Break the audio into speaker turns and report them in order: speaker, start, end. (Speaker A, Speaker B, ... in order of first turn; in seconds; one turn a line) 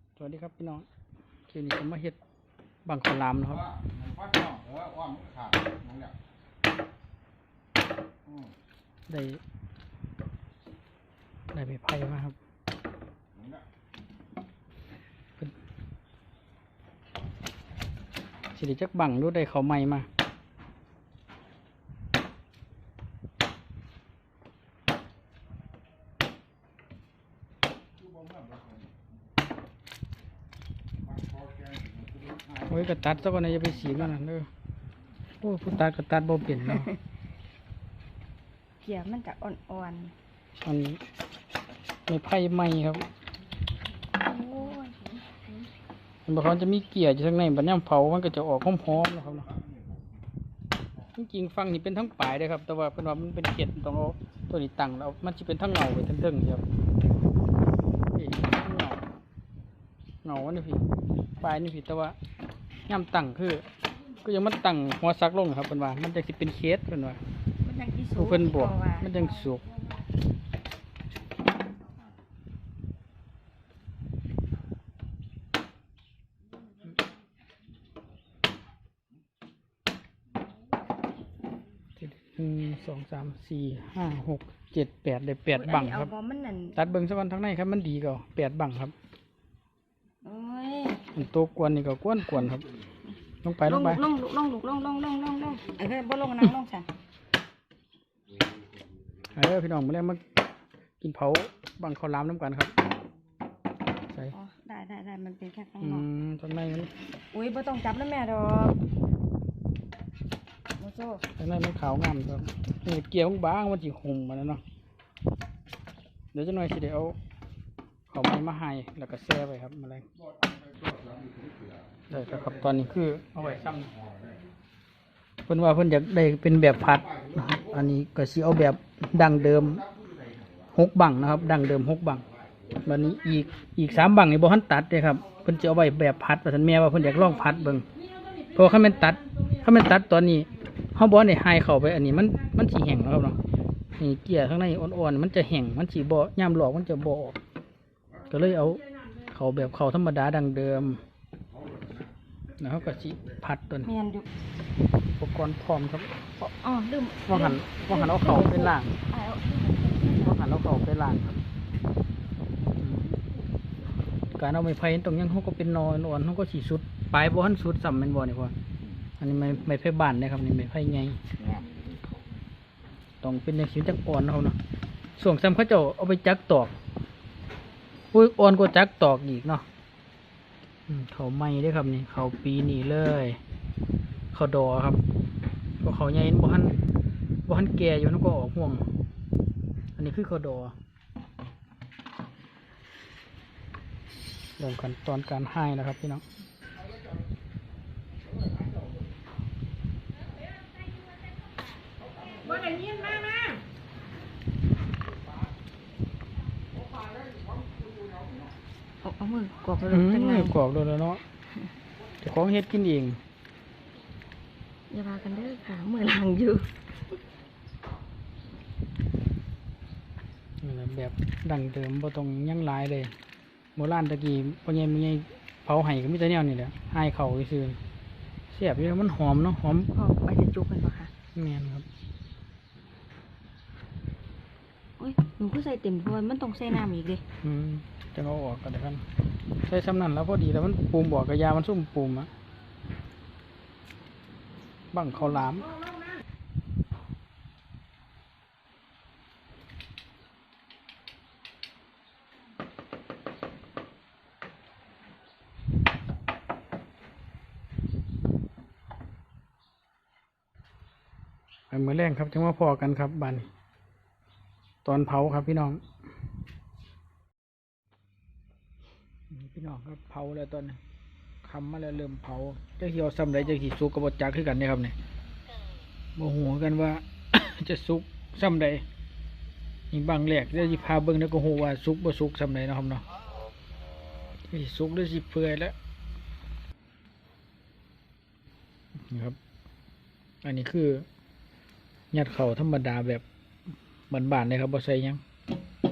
Speaker A: 0.2-0.9
Speaker A: 1.5-2.2
Speaker A: 2.9-3.7
Speaker A: 9.1-9.4
Speaker A: 11.5-12.4
Speaker A: 18.6-20.1
Speaker A: 32.6-34.5
Speaker A: 35.4-36.9
Speaker B: 38.8-40.1
Speaker A: 40.6-41.0
Speaker A: 42.1-43.0
Speaker B: 44.1-45.1
Speaker A: 46.3-49.5
Speaker A: 51.2-56.6
Speaker A: 58.1-59.0
Speaker A: 60.2-60.8
Speaker A: 61.4-62.2
Speaker A: 62.9-63.7
Speaker A: 64.2-67.2
Speaker B: 67.6-69.5
Speaker A: 68.1-69.6
Speaker A: 82.0-86.1
Speaker B: 85.5-86.8
Speaker A: 86.8-88.9
Speaker B: 90.2-91.2
Speaker A: 91.1-92.7
Speaker A: 93.4-94.0
Speaker B: 93.6-96.9
Speaker A: 99.3-100.2
Speaker A: 101.0-102.7
Speaker B: 104.3-106.1
Speaker A: 105.8-106.9
Speaker B: 107.3-108.8
Speaker B: 110.8-111.2
Speaker A: 111.4-114.6
Speaker A: 116.3-117.2
Speaker A: 118.1-120.1
Speaker A: 122.1-123.9
Speaker A: 125.5-129.9
Speaker A: 130.7-132.3
Speaker A: 132.8-137.9
Speaker A: 138.5-143.4
Speaker A: 144.0-147.4
Speaker A: 148.3-151.0
Speaker A: 152.6-153.9
Speaker B: 153.8-154.3
Speaker A: 155.2-156.1
Speaker B: 156.4-160.5
Speaker A: 157.2-158.9
Speaker A: 160.1-161.4
Speaker A: 164.4-168.5
Speaker A: 169.2-171.4
Speaker A: 173.2-174.6
Speaker A: 175.2-176.7
Speaker A: 178.1-179.7
Speaker A: 180.9-183.4
Speaker A: 184.3-185.0
Speaker A: 185.8-186.8
Speaker A: 187.5-188.9
Speaker A: 190.0-190.7
Speaker A: 194.6-196.2
Speaker B: 209.0-210.6
Speaker A: 209.9-211.2
Speaker A: 212.2-213.2
Speaker B: 214.9-216.8
Speaker A: 220.6-223.2
Speaker A: 223.8-227.8
Speaker A: 228.5-229.9
Speaker B: 229.9-231.1
Speaker A: 231.3-231.9
Speaker B: 235.0-237.2
Speaker A: 237.4-239.1
Speaker A: 239.7-242.3
Speaker A: 244.9-245.7
Speaker A: 261.7-263.5
Speaker A: 264.8-265.8
Speaker A: 269.3-270.8
Speaker A: 271.4-275.0
Speaker A: 276.2-278.8
Speaker A: 279.9-283.0
Speaker A: 284.5-285.8
Speaker A: 289.1-289.4
Speaker A: 290.4-291.1
Speaker A: 292.1-293.2
Speaker A: 294.1-295.2